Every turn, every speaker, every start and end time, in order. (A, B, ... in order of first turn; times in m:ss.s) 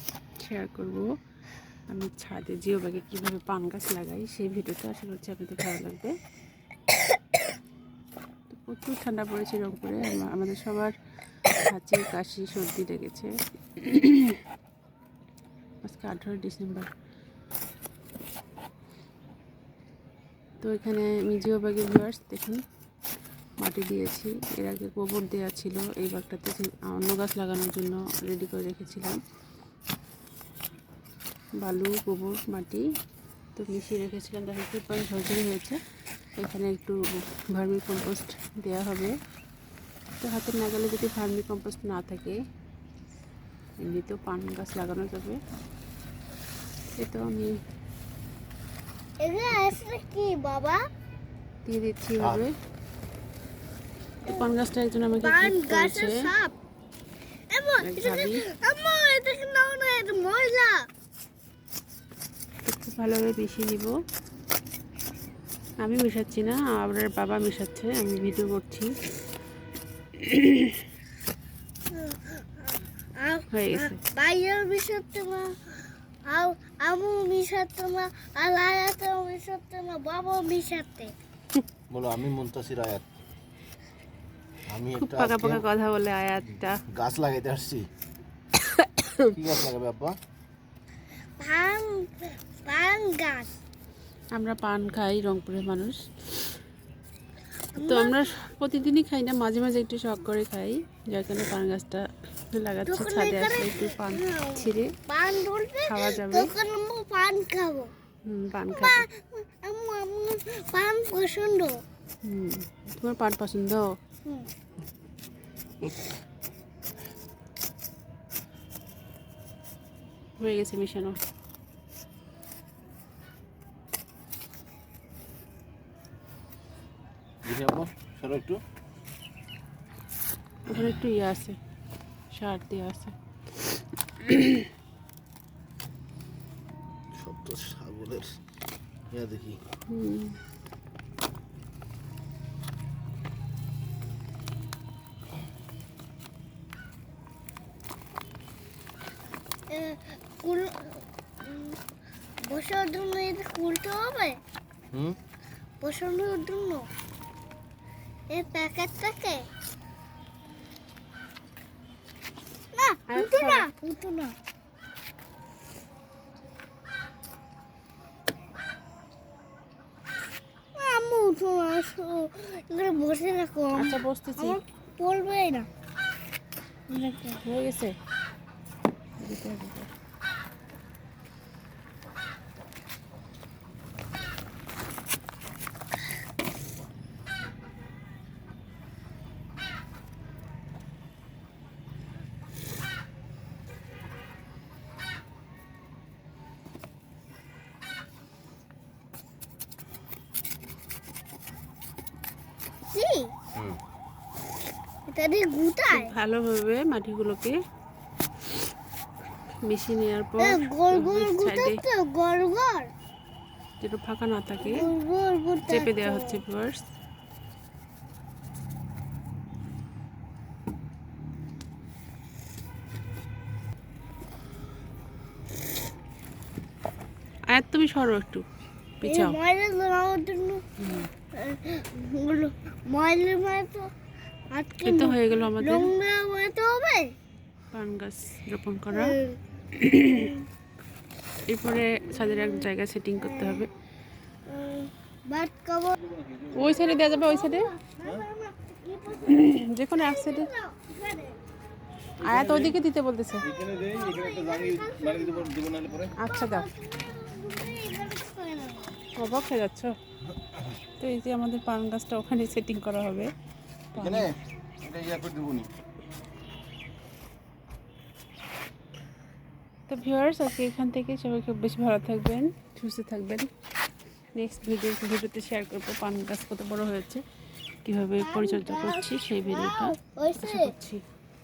0:00.4-0:01.1 A
0:01.9-0:06.1 A
0:08.5-0:10.9 A
0:11.6-0:14.4 A
0:15.8-0:16.9 A
0:20.6-0:22.6 A
0:23.6-0:29.2 A
0:31.6-0:32.8 A
0:33.5-0:35.8 A
0:36.4-0:39.1 A
0:40.2-0:42.4 A
0:43.8-0:45.4 A
0:47.0-0:47.6 A
0:49.2-0:50.8 B
0:51.6-0:52.5 A
0:52.2-0:52.4 C
0:54.3-0:56.2 A
0:55.2-0:56.5 B
0:57.5-1:00.9 B
0:57.8-0:58.4 A
1:02.6-1:03.9 A
1:05.8-1:08.9 A
1:10.1-1:10.8 A
1:11.9-1:21.1 B
1:13.5-1:14.0 A
1:21.9-1:23.0 C
1:24.7-1:25.6 C
1:25.0-1:26.8 A
1:26.9-1:27.8 C
1:28.6-1:29.3 A
1:29.3-1:30.2 C
1:31.4-1:33.5 B
1:34.3-1:36.5 A
1:37.7-1:38.3 B
1:37.8-1:44.9 A
1:42.9-1:47.9 B
1:45.8-1:46.5 A
1:48.2-1:49.0 A
1:48.7-1:51.8 B
1:52.2-1:53.9 A
2:00.4-2:01.2 A
2:07.4-2:08.6 C
2:10.7-2:11.6 A
2:12.3-2:13.1 A
2:14.2-2:14.7 A
2:17.1-2:18.4 C
2:19.1-2:19.6 C
2:19.9-2:20.4 A
2:29.7-2:31.8 B
2:32.4-2:34.4 B
2:34.9-2:35.2 C
2:35.8-2:36.9 B
2:38.3-2:39.4 B
2:42.7-2:44.3 B
2:43.1-2:43.6 A
2:50.8-2:55.7 B
2:53.8-2:54.6 A
2:56.9-2:57.4 B
2:57.0-2:58.0 A
2:59.2-2:59.9 A
3:22.9-3:23.3 B
3:25.1-3:26.1 B
3:25.9-3:27.6 A
3:29.6-3:31.8 A
3:30.4-3:32.9 B
3:33.8-3:34.9 A
3:34.6-3:36.4 B
3:35.7-3:36.8 A
3:47.5-3:48.4 A
3:49.0-3:49.4 A
3:49.0-3:50.6 B
3:50.8-3:51.1 A
3:51.3-3:53.9 B
3:54.5-3:57.1 B
3:54.8-3:55.9 A
3:57.7-3:59.2 A
3:58.9-3:59.4 B
3:59.7-4:00.4 A
4:00.1-4:00.4 B
4:01.5-4:03.7 A
4:03.2-4:03.6 B
4:04.5-4:06.0 B
4:06.5-4:07.7 A
4:06.6-4:11.4 B
4:09.2-4:10.5 A
4:12.2-4:13.5 A
4:12.2-4:12.7 C
4:13.5-4:16.1 C
4:13.6-4:18.9 B
4:16.2-4:16.7 A
4:19.2-4:19.9 A
4:21.0-4:23.3 A
4:23.9-4:24.3 A
4:23.9-4:25.7 C
4:29.9-4:33.5 A
4:34.3-4:37.2 A
4:37.8-4:41.0 A
4:38.2-4:40.7 B